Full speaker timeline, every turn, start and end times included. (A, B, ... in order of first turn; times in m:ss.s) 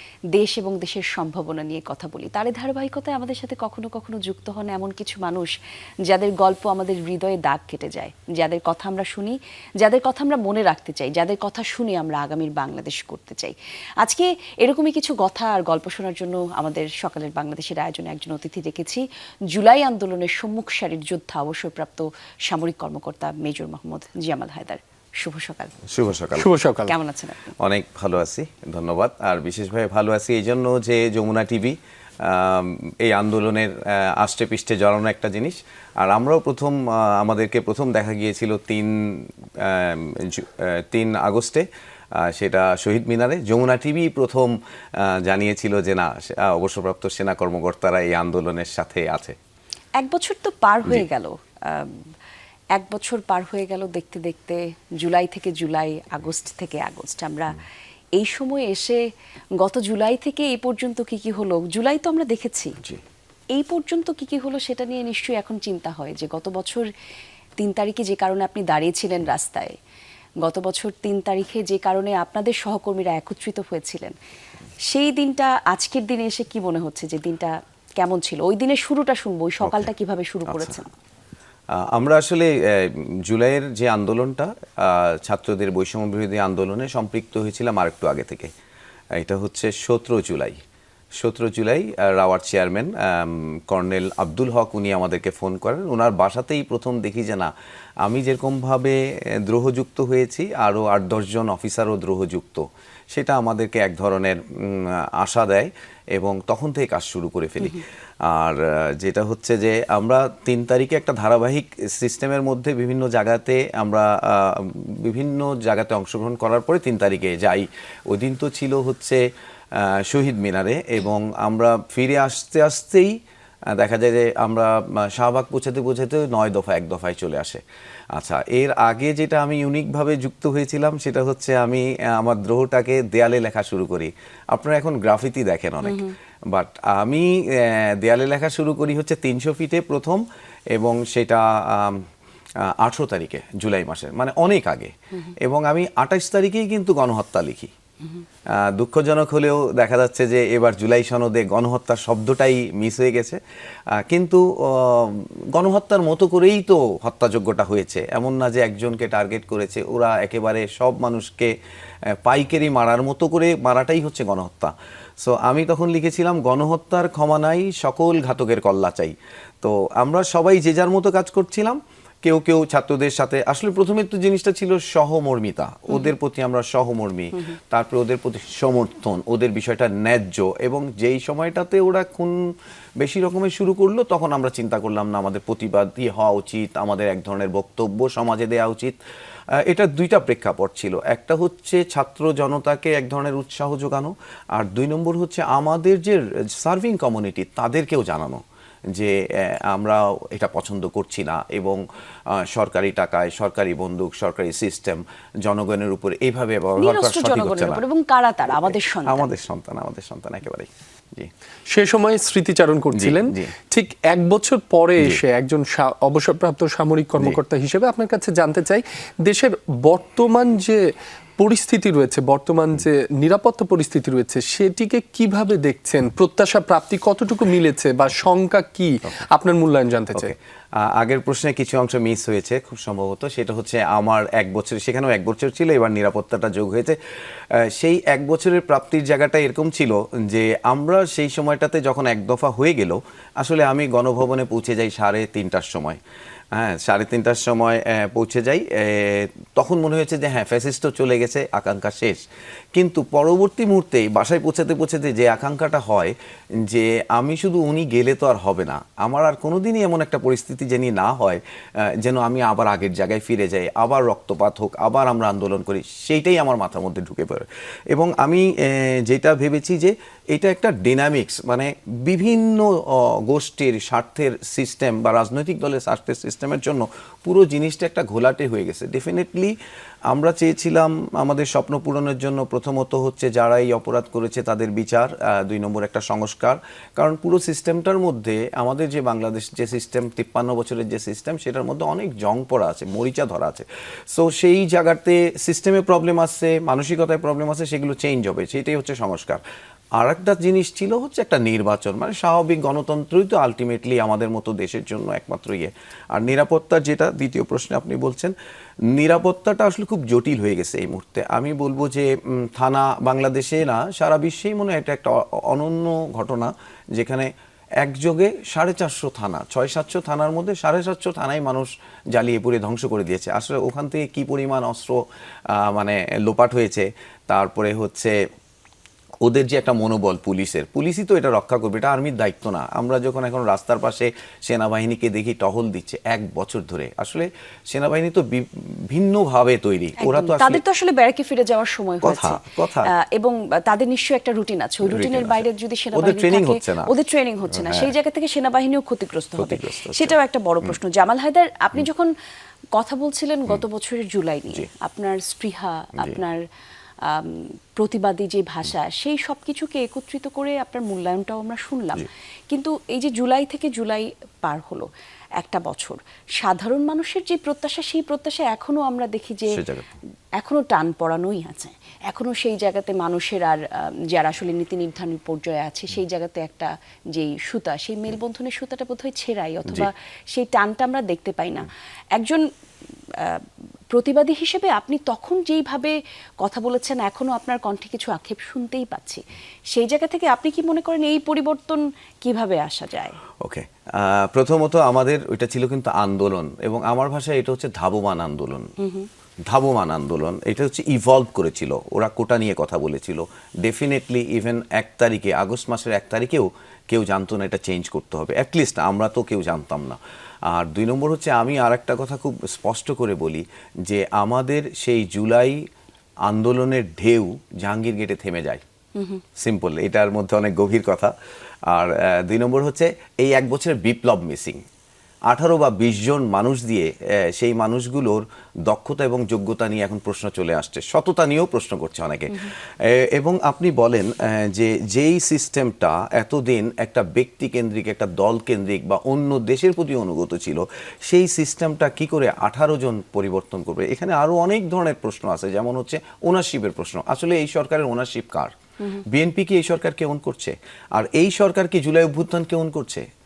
0:00.3-0:05.5 A
0:06.1-0:25.8 A
0:25.9-0:26.5 B
0:26.4-0:26.9 C
0:26.9-0:27.5 A
0:27.6-0:41.6 B
0:42.2-0:49.4 B
0:50.0-0:52.0 A
0:52.7-0:57.6 A
0:58.2-0:59.0 A
0:59.6-1:02.8 A
1:03.5-1:06.9 A
1:07.6-1:09.7 A
1:10.4-1:14.1 A
1:14.9-1:20.9 A
1:19.6-1:19.9 B
1:20.5-1:20.8 B
1:21.7-1:28.5 B
1:29.2-1:30.6 B
1:31.2-1:37.5 B
1:38.0-1:59.2 B
1:59.8-2:03.2 B
2:03.7-2:07.6 B
2:08.1-2:20.2 B
2:15.8-2:16.1 A
2:20.7-2:22.0 B
2:22.7-2:27.7 B
2:28.6-2:33.4 B
2:34.0-2:41.5 B
2:42.2-3:02.4 B
3:03.0-3:09.0 B
3:09.6-3:18.4 B
3:18.9-3:21.8 B
3:22.3-3:27.8 B
3:26.8-3:29.3 A
3:28.5-3:31.3 B
3:31.7-3:40.8 C
3:32.9-3:33.5 B
3:41.4-3:50.3 C
3:50.1-3:57.0 B
3:57.5-4:06.0 B
4:06.5-4:12.2 B
4:12.7-4:39.5 B
4:40.1-4:59.4 B
5:00.0-5:08.3 B
5:08.9-5:17.3 B
5:17.8-5:25.0 B
5:25.5-5:28.1 B
5:29.2-5:40.6 B
5:40.0-5:52.1 A
5:42.0-5:42.9 B
5:44.8-5:46.9 B
5:47.5-5:47.9 B
5:49.4-5:50.7 B
5:52.8-5:56.4 A
5:57.0-6:09.6 A
6:09.5-6:09.9 B
6:10.4-6:22.4 A
6:23.2-6:33.2 A
6:33.4-6:38.7 B
6:38.8-6:39.1 A
6:39.5-6:55.6 B
6:56.3-6:58.6 B
6:59.0-6:59.2 A
6:59.4-7:01.1 B
7:01.7-7:04.6 B
7:05.3-7:28.5 B
7:29.0-7:33.0 B